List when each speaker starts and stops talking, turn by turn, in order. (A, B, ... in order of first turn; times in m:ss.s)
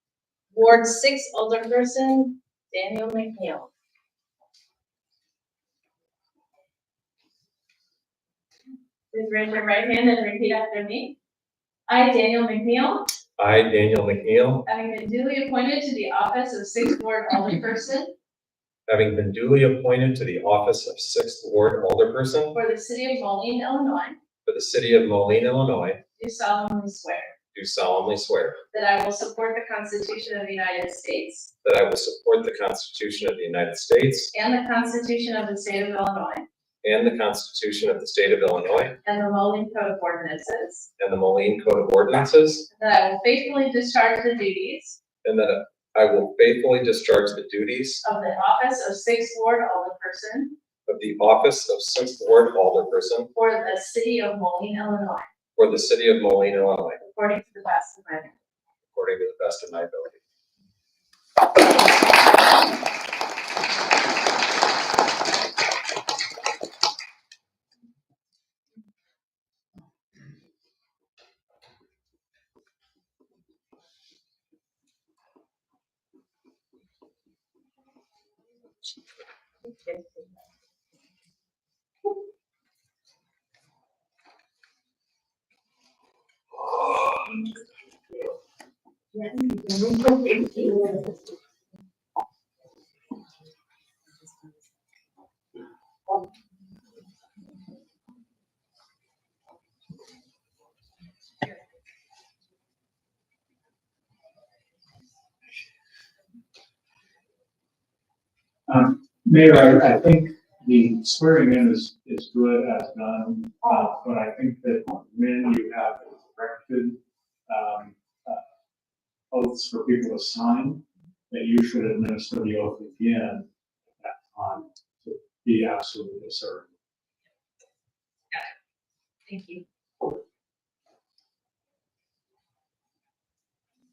0:00.5-0:03.7 A
0:09.1-0:11.1 A
0:11.9-0:13.1 A
0:13.4-0:14.6 B
0:14.7-0:18.1 A
0:18.9-0:22.6 B
0:22.5-0:24.2 A
0:24.4-0:26.0 B
0:26.2-0:27.3 A
0:27.5-0:28.6 B
0:28.7-0:31.5 A
0:31.6-0:34.3 B
0:34.3-0:36.4 A
0:36.8-0:39.0 B
0:39.0-0:40.9 A
0:41.0-0:42.7 B
0:42.7-0:45.0 A
0:45.2-0:48.0 B
0:48.0-0:50.5 A
0:50.9-0:53.3 B
0:53.3-0:55.2 A
0:55.6-0:57.0 B
0:57.0-0:58.3 A
0:58.9-1:00.2 B
1:29.1-1:31.0 A
1:48.7-1:58.4 C
1:59.3-2:03.5 C
2:04.0-2:06.7 C
2:09.3-2:09.6 A